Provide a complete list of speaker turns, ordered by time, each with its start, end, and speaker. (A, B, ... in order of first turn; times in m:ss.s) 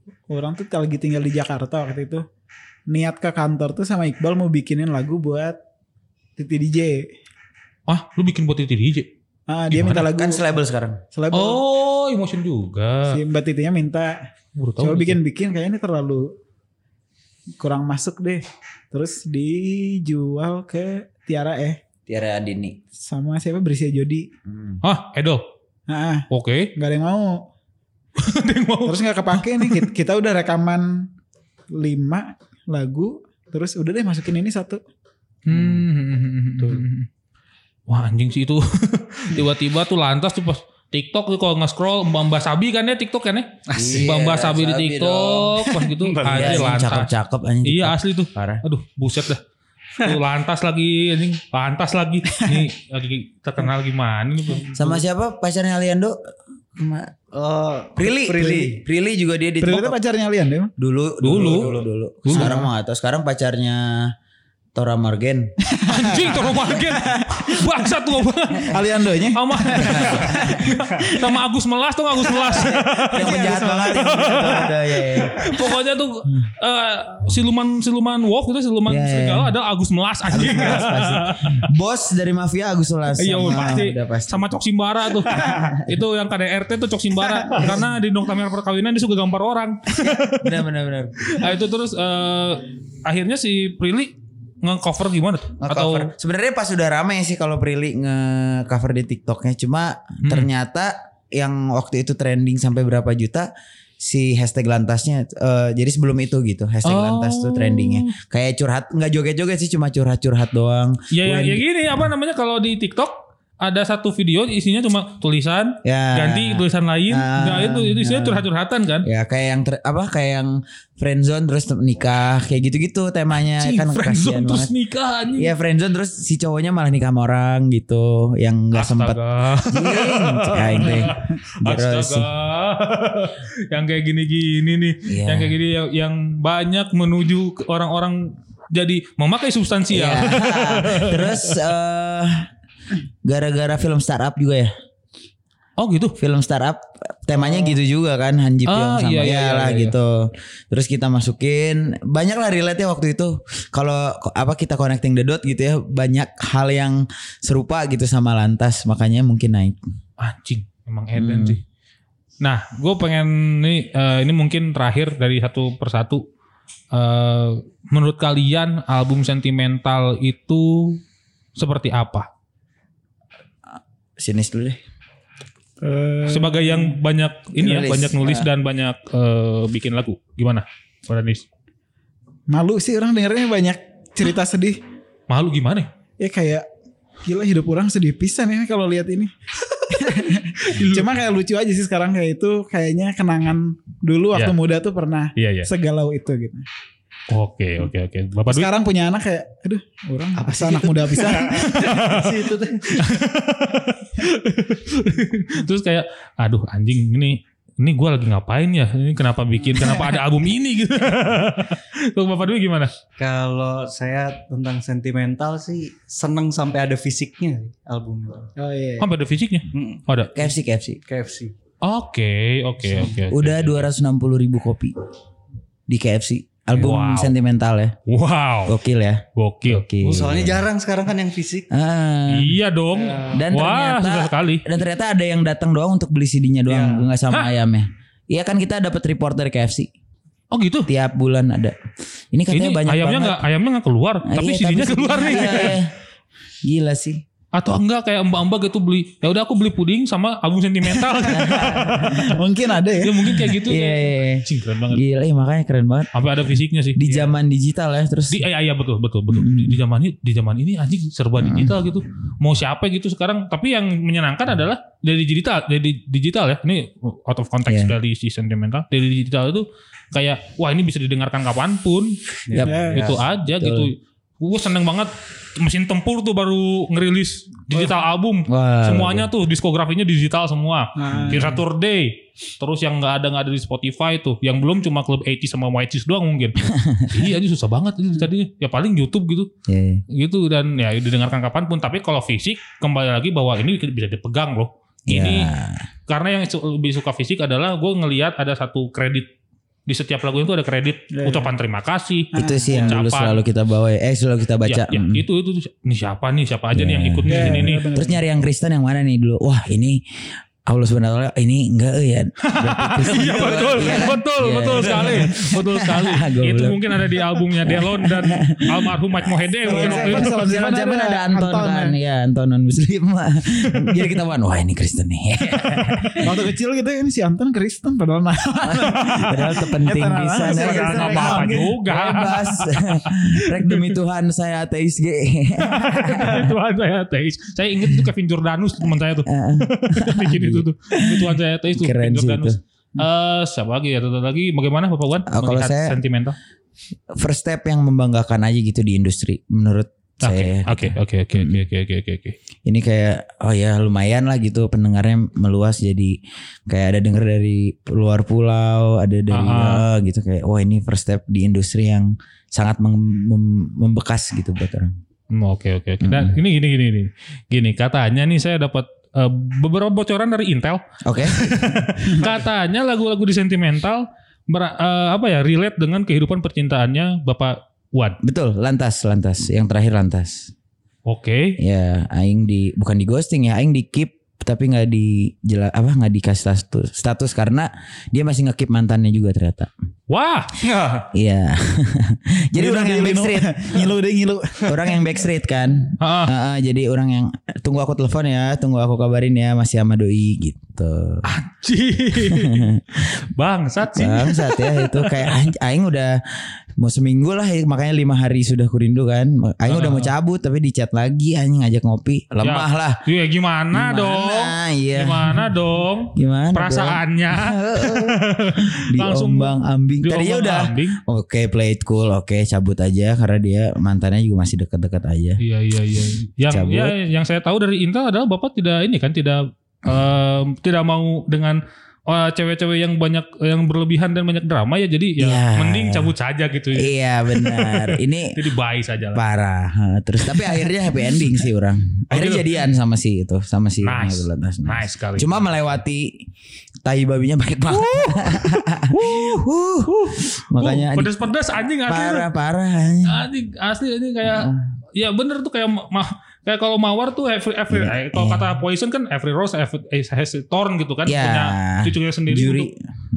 0:00.3-0:02.2 A
0:02.9-0:05.6 A
0:06.4-0:07.1 A
0:07.9-0:09.1 B
0:09.5-0:10.5 A
0:09.7-0:10.1 B
0:09.9-0:11.0 C
0:11.1-0:11.6 A
0:11.3-0:13.2 B
0:13.1-0:14.2 A
0:14.6-0:15.2 B
0:14.8-0:16.3 A
0:17.6-0:21.8 A
0:22.1-0:22.8 C
0:23.0-0:24.3 A
0:24.5-0:24.8 C
0:24.8-0:25.4 B
0:25.9-0:27.5 A
0:26.3-0:26.7 B
0:28.2-0:29.9 B
0:28.9-0:31.1 A
0:31.8-0:34.8 A
0:35.4-0:37.1 B
0:35.5-0:35.8 C
0:37.9-0:47.1 B
0:43.7-0:44.2 D
0:43.8-0:45.7 C
0:45.9-0:46.8 D
0:46.3-0:48.6 C
0:47.6-0:49.4 B
0:50.0-0:54.8 B
0:54.8-0:56.2 C
0:56.8-0:57.1 C
0:57.1-0:58.8 D
0:58.0-1:00.0 C
0:59.6-1:00.7 A
1:00.8-1:04.1 C
1:01.2-1:02.6 B
1:01.4-1:01.8 D
1:02.3-1:02.7 A
1:04.8-1:05.5 C
1:05.7-1:07.8 A
1:05.9-1:21.7 B
1:08.7-1:11.3 A
1:09.8-1:10.7 C
1:12.3-1:15.5 C
1:13.2-1:14.7 A
1:18.9-1:19.5 C
1:20.3-1:24.4 C
1:23.2-1:30.6 B
1:25.4-1:26.0 C
1:27.5-1:27.9 C
1:29.9-1:31.2 C
1:31.2-1:36.1 B
1:35.6-1:43.5 C
1:40.2-1:40.5 B
1:44.0-1:51.6 C
1:46.8-1:48.1 B
1:51.1-1:59.1 B
1:55.8-1:58.5 C
1:59.0-2:04.7 C
2:03.6-2:05.5 B
2:05.4-2:09.2 C
2:08.7-2:21.6 B
2:09.7-2:12.3 C
2:15.0-2:15.6 C
2:19.9-2:22.5 C
2:23.2-2:24.7 C
2:25.8-2:26.2 B
2:26.2-2:39.9 C
2:28.7-2:30.0 B
2:40.2-2:41.6 B
2:41.2-2:41.6 C
2:42.4-2:46.2 B
2:46.9-2:51.0 B
2:51.6-2:52.3 B
2:54.2-2:54.8 C
2:55.8-2:57.0 A
2:56.3-3:01.5 B
2:57.6-2:58.5 C
3:02.5-3:04.8 A
3:05.3-3:05.9 B
3:06.2-3:06.7 A
3:07.2-3:09.3 A
3:09.9-3:16.7 A
3:10.6-3:11.2 B
3:15.4-3:15.7 B
3:17.3-3:18.7 B
3:18.5-3:22.1 A
3:21.2-3:32.9 B
3:21.4-3:23.2 D
3:29.8-3:30.2 A
3:33.2-3:38.5 D
3:38.6-3:39.1 A
3:39.0-3:40.3 B
3:39.7-3:40.0 D
3:40.3-3:41.0 C
3:41.1-3:41.5 D
3:41.8-3:43.9 B
3:42.9-3:43.2 D
3:43.3-3:44.9 C
3:45.9-3:48.0 C
3:46.7-3:47.3 B
3:48.1-3:48.8 B
3:48.7-3:50.6 C
3:49.4-3:49.8 B
3:50.0-3:51.7 D
3:51.7-3:52.6 C
3:52.3-3:54.6 B
3:52.9-3:53.4 D
3:53.3-3:59.9 C
3:56.7-3:57.1 D
4:00.5-4:00.9 B
4:00.9-4:01.8 C
4:02.3-4:03.4 C
4:02.5-4:05.8 B
4:04.2-4:05.9 C
4:06.6-4:07.2 C
4:07.6-4:12.2 B
4:11.3-4:12.3 C
4:11.4-4:13.3 A
4:13.0-4:15.0 B
4:13.4-4:16.1 C
4:16.1-4:17.3 B
4:17.0-4:18.4 C
4:18.3-4:49.5 B
4:19.3-4:19.8 C
4:21.4-4:21.8 C
4:27.7-4:27.9 C
4:32.5-4:33.2 D
4:32.6-4:33.1 A
4:33.5-4:33.9 C
4:38.5-4:39.3 C
4:41.0-4:41.6 A
4:46.7-4:47.1 C
4:49.7-4:50.0 C
4:50.1-4:55.5 B
4:55.1-4:55.9 C
4:56.1-4:59.3 B
4:59.9-5:03.4 B
5:01.2-5:01.5 A
5:02.3-5:03.0 A
5:02.3-5:05.2 C
5:04.6-5:07.8 B
5:06.7-5:10.0 C
5:07.3-5:08.2 A
5:10.7-5:26.4 C
5:12.4-5:20.4 B
5:19.7-5:22.0 A
5:23.7-5:24.0 B
5:25.5-5:26.2 B
5:26.2-5:31.8 A
5:28.6-5:29.6 B
5:28.7-5:36.5 C
5:30.4-5:33.9 B
5:35.6-5:46.4 B
5:39.2-5:42.6 C
5:45.3-5:46.0 C
5:47.1-5:51.6 C
5:50.2-5:52.4 B
5:52.6-6:05.0 C
5:59.3-5:59.9 B
6:05.3-6:18.2 B
6:06.0-6:06.4 C
6:11.0-6:11.7 C
6:18.2-6:20.5 C
6:21.1-6:21.6 B
6:21.6-6:29.7 C
6:30.1-6:30.5 B
6:30.6-6:31.1 D
6:31.1-6:33.7 C
6:32.6-6:35.0 A
6:34.7-6:41.3 C
6:36.0-6:36.3 B
6:41.2-6:45.3 B
6:42.2-6:43.0 C
6:43.9-6:53.0 C
6:49.6-6:50.1 B
6:52.4-7:01.0 B
6:53.7-6:55.5 C
6:56.2-6:58.2 C
6:58.8-7:05.4 C
7:05.4-7:19.2 B
7:06.5-7:07.0 C
7:15.2-7:16.1 C
7:16.8-7:18.4 C
7:19.1-7:26.3 C
7:22.1-7:22.4 B
7:23.8-7:25.5 B
7:26.8-7:31.2 C
7:27.7-7:32.3 B
7:31.9-7:33.2 C
7:33.0-7:42.7 B
7:34.2-7:34.6 C
7:37.7-7:38.6 C
7:41.1-7:42.9 C